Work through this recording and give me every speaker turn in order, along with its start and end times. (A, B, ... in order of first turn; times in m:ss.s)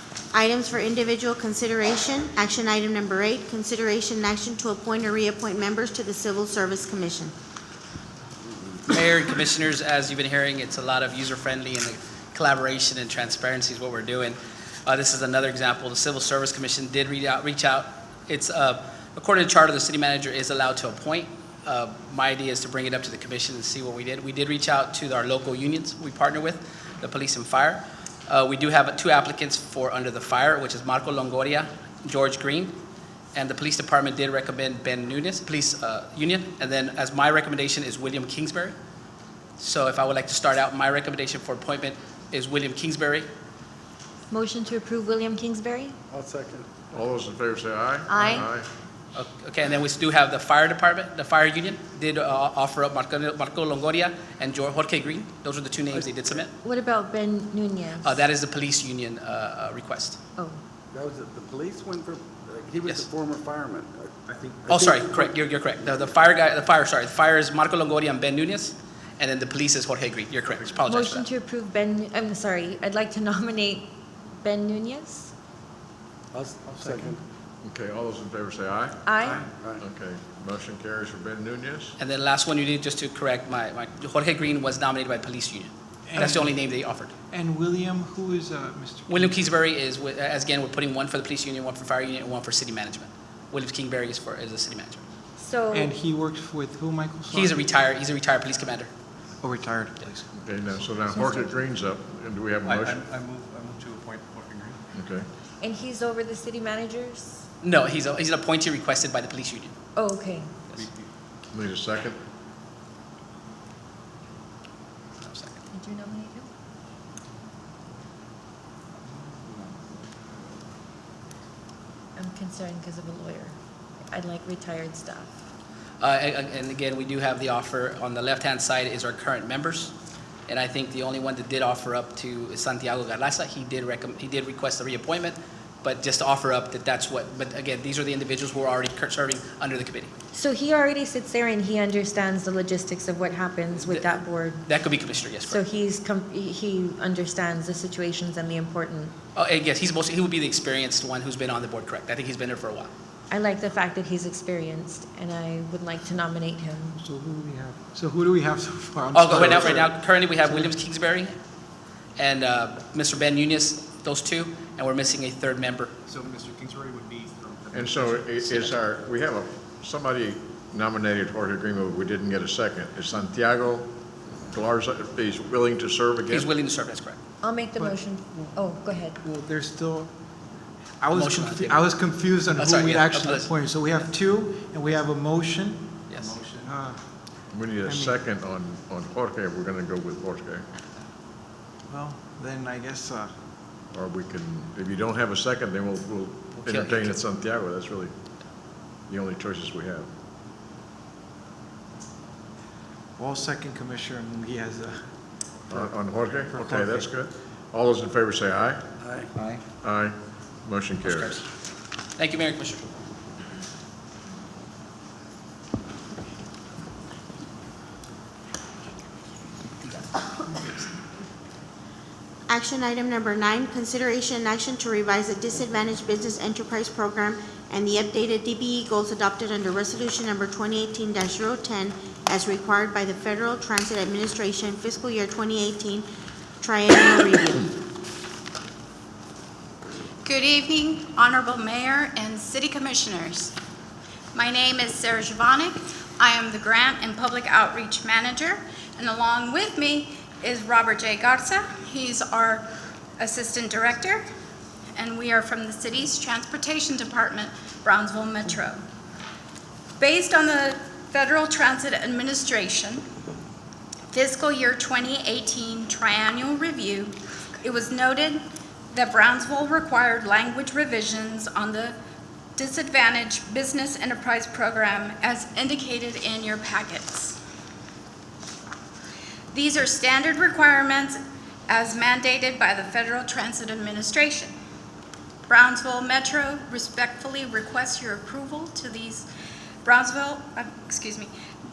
0:00.3-0:07.3 A
0:08.9-0:32.7 B
0:33.3-0:38.8 B
0:39.6-0:43.3 B
0:44.3-0:46.0 C
0:46.1-0:46.9 D
0:46.9-0:48.7 E
0:48.1-0:48.5 C
0:49.1-0:56.5 B
0:56.6-0:58.2 C
0:58.0-1:00.2 B
1:00.9-1:05.3 D
1:04.7-1:11.3 B
1:10.9-1:15.3 C
1:16.3-1:17.2 D
1:17.6-1:22.0 E
1:19.1-1:19.4 C
1:19.3-1:19.8 D
1:22.0-1:27.1 B
1:26.1-1:26.5 F
1:27.3-1:29.4 F
1:29.1-1:35.0 B
1:35.4-1:35.9 C
1:35.7-1:37.5 F
1:37.3-1:38.9 B
1:39.4-1:40.3 F
1:40.4-1:43.0 E
1:41.2-1:41.5 C
1:42.6-1:44.8 G
1:44.9-1:45.3 E
1:45.6-1:47.4 C
1:47.6-1:49.7 B
1:50.0-1:50.5 C
1:50.8-1:51.1 G
1:51.5-1:52.2 E
1:55.2-1:55.6 B
1:55.7-1:56.5 C
2:02.2-2:03.6 C
2:04.1-2:05.4 C
2:06.0-2:09.9 B
2:10.5-2:20.1 B
2:20.3-2:24.7 C
2:23.8-2:24.0 B
2:24.7-2:25.6 B
2:25.4-2:29.1 C
2:29.3-2:32.9 B
2:33.3-2:37.0 C
2:37.0-2:39.9 F
2:39.1-2:41.3 B
2:42.2-2:45.9 B
2:46.0-2:48.2 G
2:47.7-2:53.9 E
2:54.5-2:56.5 E
2:56.3-2:57.2 B
2:57.4-2:59.2 C
2:57.8-2:58.5 F
2:59.2-3:00.1 F
3:01.0-3:05.9 F
3:01.1-3:01.9 B
3:02.5-3:04.1 B
3:06.1-3:06.4 B
3:06.6-3:07.0 F
3:07.5-3:10.7 E
3:07.9-3:08.1 F
3:11.9-3:13.3 F
3:13.9-3:18.1 E
3:16.6-3:17.2 B
3:19.1-3:20.1 E
3:23.2-3:24.9 F
3:25.7-3:28.8 E
3:26.6-3:27.0 F
3:29.0-3:29.3 D
3:29.8-3:31.4 E
3:31.0-3:31.4 B
3:32.2-3:32.8 B
3:39.8-3:40.8 B
3:42.5-3:56.0 A
3:56.6-3:57.8 A
4:00.2-4:03.5 H
4:04.3-4:12.6 H
4:13.2-4:14.2 H
4:15.0-4:18.8 H
4:20.0-4:23.0 H
4:24.1-4:28.4 H
4:28.9-4:31.9 H
4:32.6-4:37.4 H
4:39.5-4:44.5 H
4:45.5-4:49.3 H
4:49.8-4:51.3 H